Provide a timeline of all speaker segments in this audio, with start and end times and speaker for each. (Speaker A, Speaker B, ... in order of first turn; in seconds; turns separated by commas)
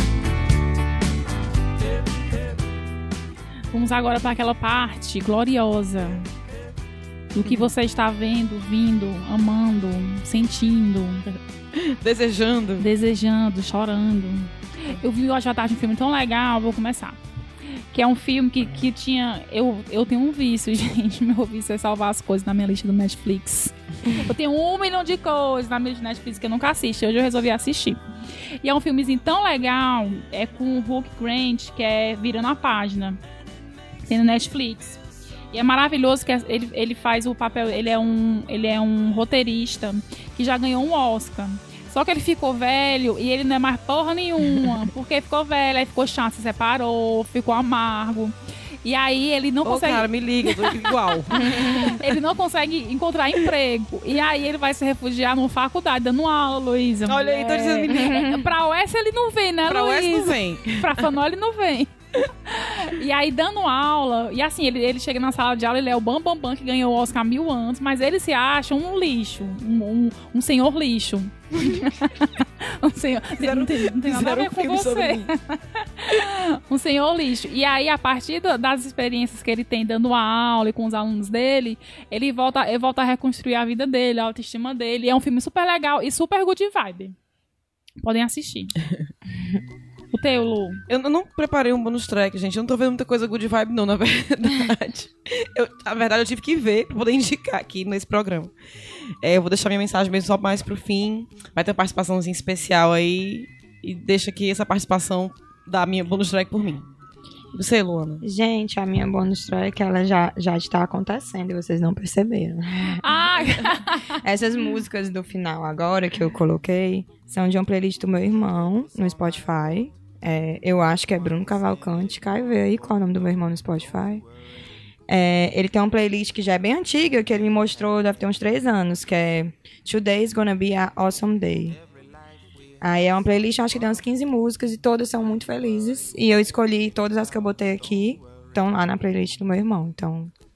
Speaker A: 3.7-6.3, Speaker A: 7.3-11.2, Speaker B: 7.4-7.7, Speaker B: 11.8-12.8, Speaker A: 12.8-17.2, Speaker A: 17.9-28.0, Speaker A: 28.6-33.2, Speaker A: 34.1-35.0, Speaker A: 35.5-61.9, Speaker B: 49.6-51.7, Speaker C: 51.4-51.9, Speaker B: 57.1-58.3, Speaker C: 57.9-58.4, Speaker B: 59.7-60.9, Speaker A: 62.5-87.2, Speaker B: 71.6-71.8, Speaker B: 73.4-75.3, Speaker A: 88.0-88.7, Speaker A: 90.1-90.8, Speaker B: 90.9-98.5, Speaker B: 99.2-106.9, Speaker B: 107.5-108.2, Speaker C: 108.2-113.0, Speaker A: 113.0-114.0, Speaker C: 114.2-124.2, Speaker C: 125.1-131.8, Speaker C: 132.8-140.3